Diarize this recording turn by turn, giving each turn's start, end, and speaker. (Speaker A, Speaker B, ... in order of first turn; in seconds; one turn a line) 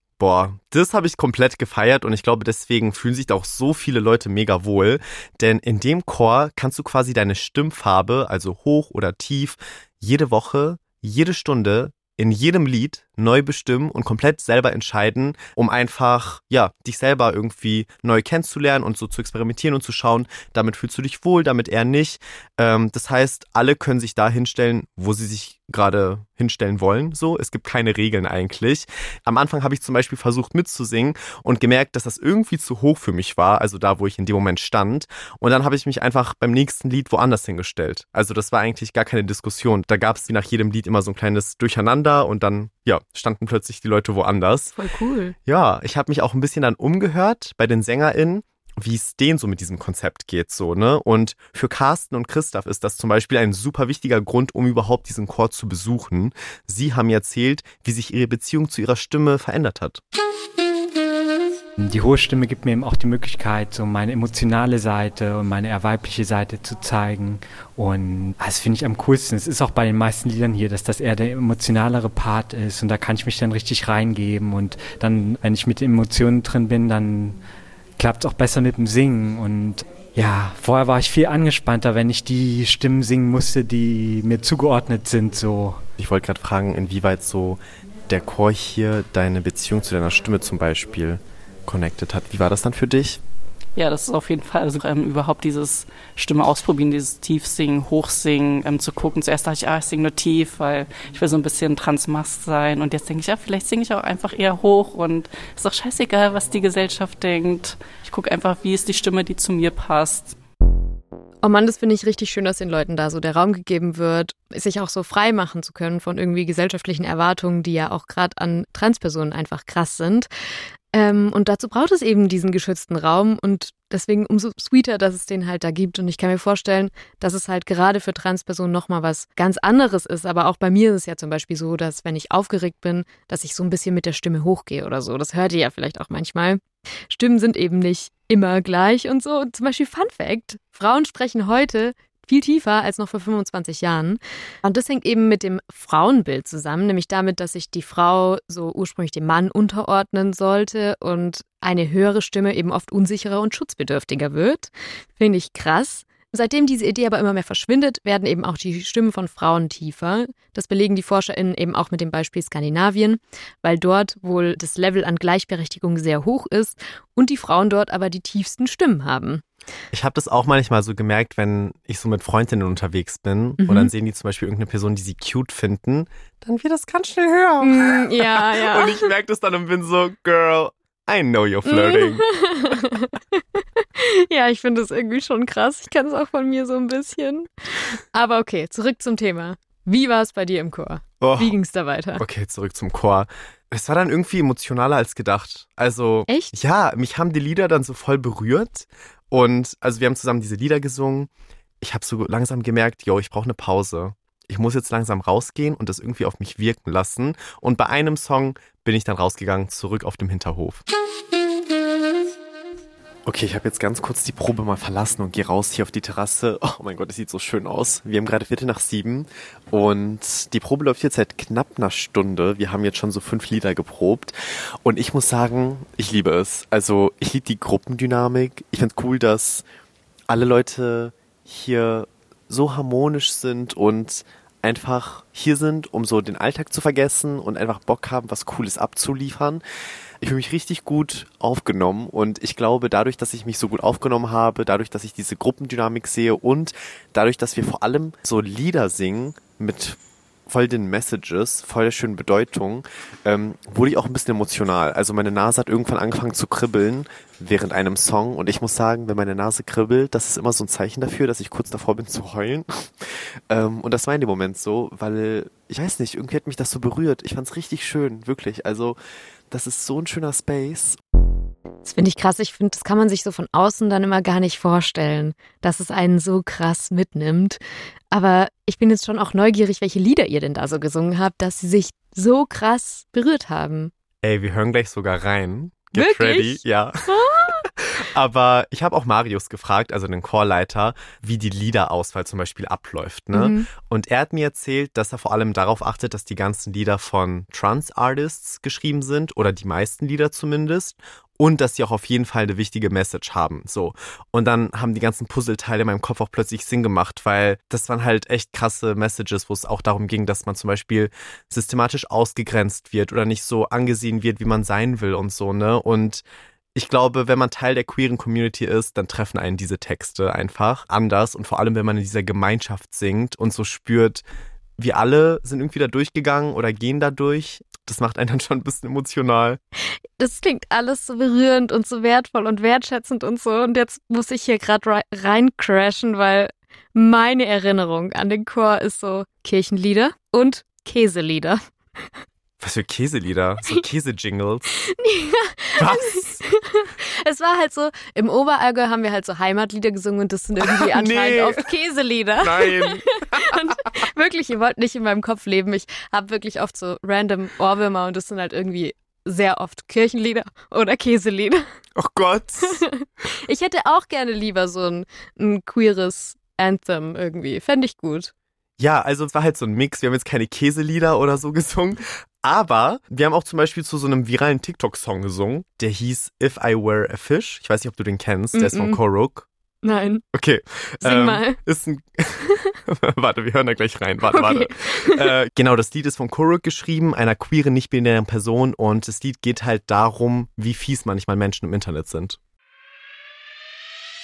Speaker A: 0.2-44.7
Speaker B: 44.8-45.4
Speaker A: 45.5-60.0
Speaker C: 61.8-77.4
Speaker C: 78.0-85.8
Speaker A: 86.0-93.2
Speaker D: 93.8-110.4
Speaker B: 111.4-120.3
Speaker B: 120.9-169.4
Speaker A: 169.9-182.2
Speaker B: 173.6-173.9
Speaker B: 177.6-179.1
Speaker B: 181.7-192.2
Speaker A: 191.2-191.6
Speaker A: 192.2-201.3
Speaker B: 196.3-196.5
Speaker A: 201.8-210.8
Speaker A: 213.3-229.7
Speaker A: 230.3-239.6
Speaker A: 240.2-269.0
Speaker A: 269.5-271.0
Speaker B: 271.8-277.6
Speaker B: 278.1-283.9
Speaker A: 284.2-316.2
Speaker B: 285.9-287.7
Speaker B: 293.3-293.7
Speaker A: 316.8-324.2
Speaker A: 324.8-329.6
Speaker B: 330.2-341.6
Speaker A: 342.6-344.7
Speaker B: 344.8-361.6
Speaker A: 345.8-346.4
Speaker A: 350.6-351.7
Speaker A: 352.4-353.8
Speaker A: 362.0-362.8
Speaker B: 362.6-368.3
Speaker A: 368.8-379.5
Speaker B: 378.6-379.0
Speaker B: 379.8-380.2
Speaker A: 380.3-392.4
Speaker B: 381.0-381.6
Speaker B: 384.3-385.3